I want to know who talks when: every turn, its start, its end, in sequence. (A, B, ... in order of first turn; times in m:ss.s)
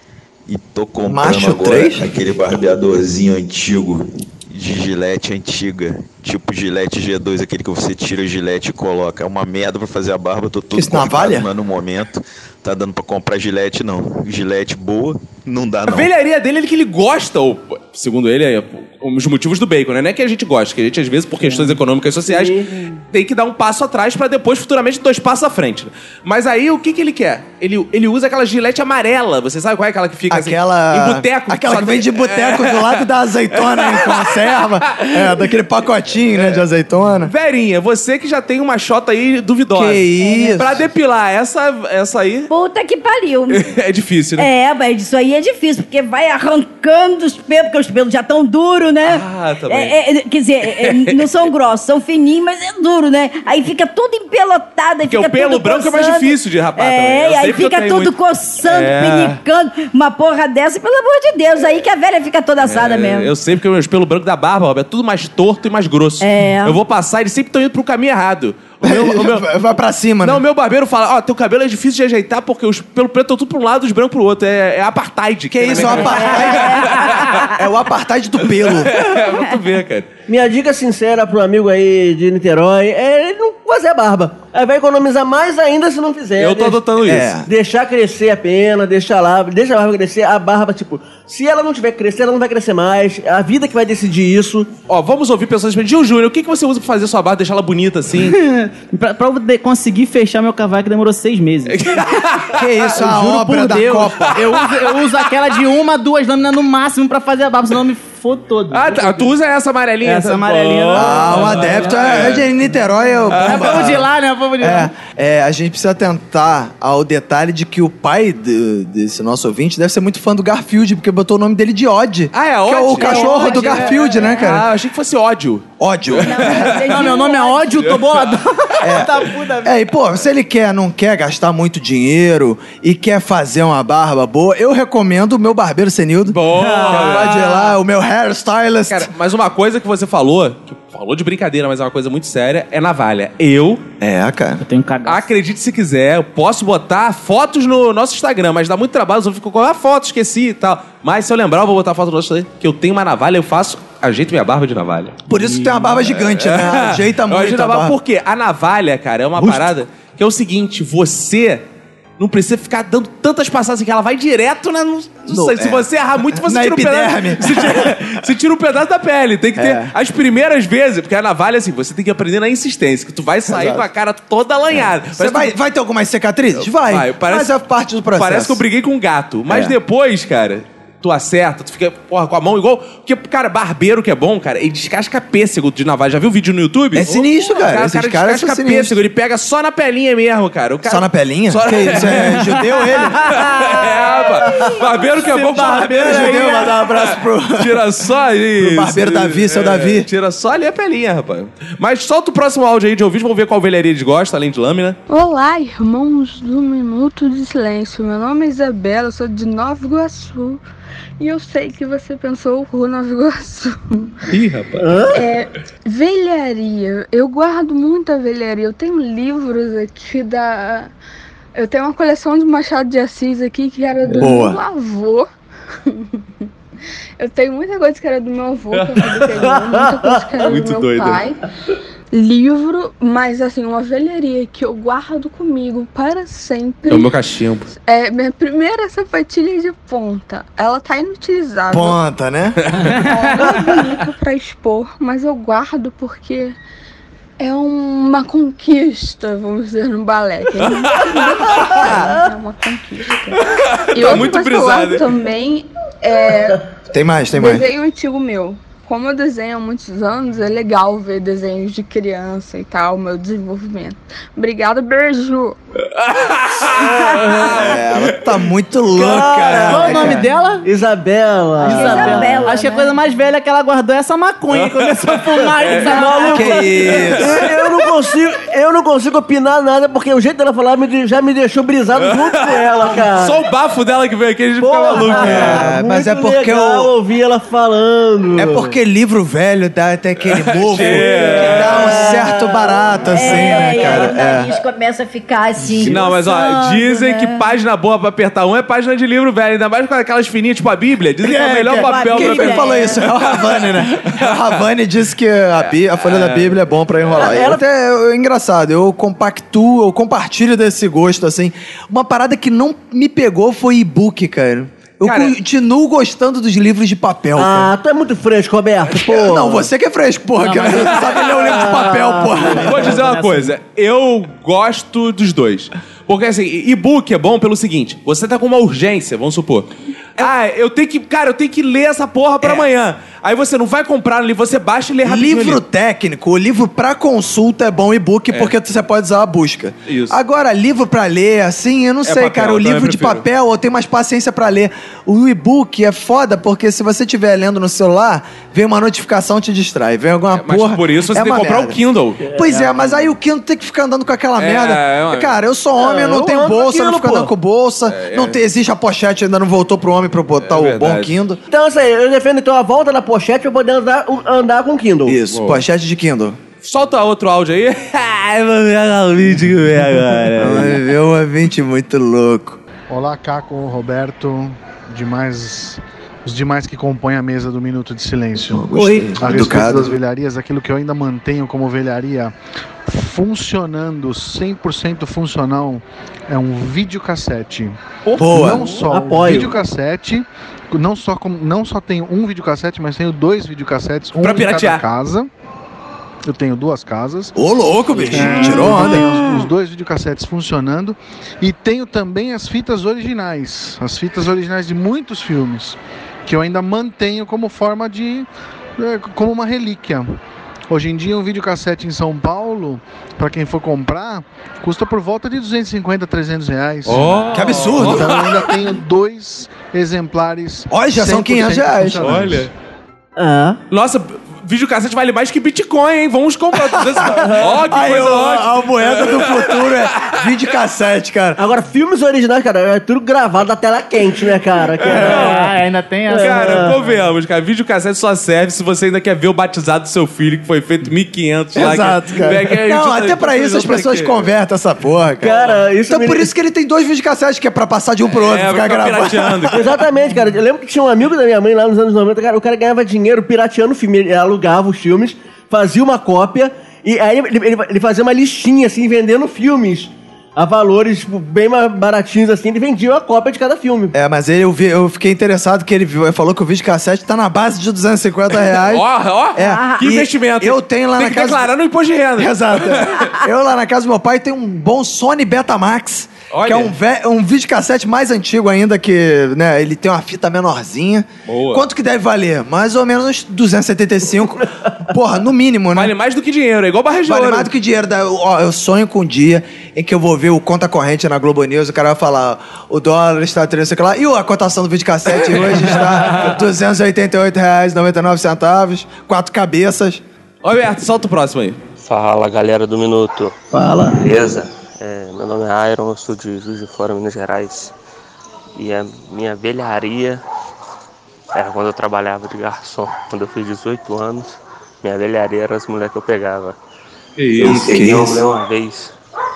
0:00.5-0:16.1 A
0:01.1-0:02.1 B
0:10.7-0:11.5 B
0:15.8-0:35.5 C
0:21.4-0:21.8 D
0:22.3-0:22.9 E
0:30.3-0:37.3 B
0:36.3-0:36.6 C
0:37.1-0:42.5 C
0:39.7-0:40.8 B
0:40.2-0:40.6 F
0:42.5-0:43.7 F
0:43.5-0:44.5 C
0:44.4-1:03.3 F
0:49.0-0:50.0 C
0:50.7-0:51.2 C
0:55.1-0:59.4 C
1:02.6-1:09.5 C
1:06.2-1:06.8 F
1:08.8-1:10.4 B
1:10.2-1:17.5 C
1:15.5-1:19.0 B
1:15.8-1:17.5 F
1:18.7-1:20.1 C
1:20.3-1:26.8 E
1:26.4-1:27.3 C
1:27.0-1:27.5 B
1:27.4-1:34.7 E
1:34.9-1:38.4 C
1:38.2-1:41.8 D
1:41.7-1:42.6 C
1:42.5-1:44.4 B
1:42.9-1:49.3 D
1:44.6-1:45.1 C
1:48.7-1:52.4 C
1:50.0-1:52.3 D
1:50.9-1:54.0 B
1:53.3-1:54.0 C
1:53.3-1:54.9 D
1:54.6-2:04.7 B
2:02.3-2:07.1 C
2:03.0-2:04.5 F
2:03.4-2:03.9 D
2:05.8-2:06.8 B
2:06.2-2:07.8 F
2:06.9-2:09.9 D
2:07.8-2:08.2 C
2:08.8-2:19.1 B
2:16.3-2:17.8 C
2:16.5-2:17.0 D
2:18.9-2:23.8 C
2:24.0-2:24.6 B
2:24.6-2:25.2 D
2:25.0-2:35.2 C
2:35.3-2:38.0 B
2:35.6-2:35.8 D
2:36.1-2:41.6 C
2:39.4-2:39.7 B
2:42.2-2:55.5 C
2:45.3-2:48.1 B
2:49.6-2:49.9 B
2:53.5-2:53.9 B
2:54.7-2:58.6 B
2:56.6-2:57.5 C
2:58.1-3:25.0 C
2:59.5-2:59.8 B
3:06.9-3:09.0 B
3:10.8-3:13.5 B
3:15.3-3:16.4 D
3:15.4-3:17.8 B
3:18.6-3:20.1 B
3:25.1-3:30.6 G
3:31.2-3:34.1 G
3:34.3-3:35.2 C
3:34.8-3:35.2 E
3:35.1-3:40.9 G
3:41.6-3:45.3 G
3:44.2-3:44.6 B
3:45.8-3:46.5 G
3:47.2-3:51.4 G
3:50.4-3:51.2 C
3:52.1-3:57.1 G
3:56.9-3:57.7 C
3:57.9-4:02.0 G
4:01.7-4:02.6 B
4:02.8-4:03.1 D
4:03.0-4:06.6 G
4:07.4-4:16.6 G
4:11.0-4:11.6 C
4:13.4-4:15.0 C
4:16.9-4:17.6 B
4:17.3-4:25.6 G
4:25.8-4:28.2 C
4:27.4-4:30.2 B
4:28.9-4:32.5 E
4:29.6-4:30.6 D
4:31.6-4:36.9 D
4:31.6-4:33.0 F
4:34.5-4:36.0 C
4:35.8-4:43.4 E
4:36.3-4:37.4 B
4:36.9-4:37.5 C
4:42.0-4:45.6 C
4:44.6-4:48.7 E
4:45.2-4:46.9 B
4:48.3-4:54.5 B
4:50.3-4:52.0 C
4:50.8-4:54.2 E
4:53.1-4:57.4 F
4:55.8-5:04.5 C
5:01.2-5:17.7 B
5:01.6-5:03.1 F
5:05.6-5:07.3 C
5:07.2-5:07.6 E
5:15.0-5:15.3 C
5:17.4-5:19.7 E
5:18.9-5:23.0 B
5:20.4-5:20.8 D
5:20.6-5:21.9 C
5:21.6-5:22.6 E
5:22.5-5:35.6 C
5:22.8-5:23.5 D
5:35.0-5:51.8 B
5:39.9-5:40.2 C
5:42.0-5:43.2 C
5:50.3-5:52.2 C
5:52.2-5:52.9 E
5:52.3-6:01.4 B
5:54.4-5:55.4 C
5:55.8-5:57.3 E
5:57.9-5:58.4 C
6:00.4-6:01.2 C
6:01.5-6:05.2 E
6:05.0-6:06.4 B
6:05.3-6:05.6 C
6:06.6-6:10.8 C
6:10.4-6:12.6 B
6:12.9-6:22.3 H
6:18.5-6:20.0 B
6:22.8-6:35.3 H
6:28.2-6:28.7 B
6:28.2-6:29.6 E
6:34.1-6:34.8 C
6:36.2-6:37.3 H
6:37.4-6:39.2 B
6:38.1-6:50.1 H
6:50.7-7:02.5 H
6:56.8-6:58.6 C
6:57.3-6:58.2 B
7:00.7-7:02.4 B
7:02.0-7:02.5 C
7:03.2-7:03.6 E
7:03.7-7:10.3 C
7:06.7-7:11.4 B
7:07.1-7:07.4 E
7:11.4-7:15.5 E
7:14.8-7:15.5 C
7:14.9-7:16.7 D
7:16.1-7:16.8 E
7:16.2-7:24.3 C
7:21.5-7:29.7 B
7:25.2-7:26.3 E
7:28.1-7:29.8 C
7:29.5-7:43.9 E
7:43.9-7:51.5 B
7:48.5-7:53.1 C
7:49.4-7:49.8 F
7:52.2-8:05.9 B
7:56.3-7:56.7 C
8:01.3-8:01.6 C
8:05.7-8:07.5 C
8:07.0-8:20.0 B
8:20.4-8:21.6 C
8:21.8-8:23.4 I
8:23.9-8:27.7 I
8:28.5-8:30.2 I
8:31.3-8:36.6 I
8:37.2-8:37.9 C
8:37.4-8:38.9 I
8:37.4-8:38.2 B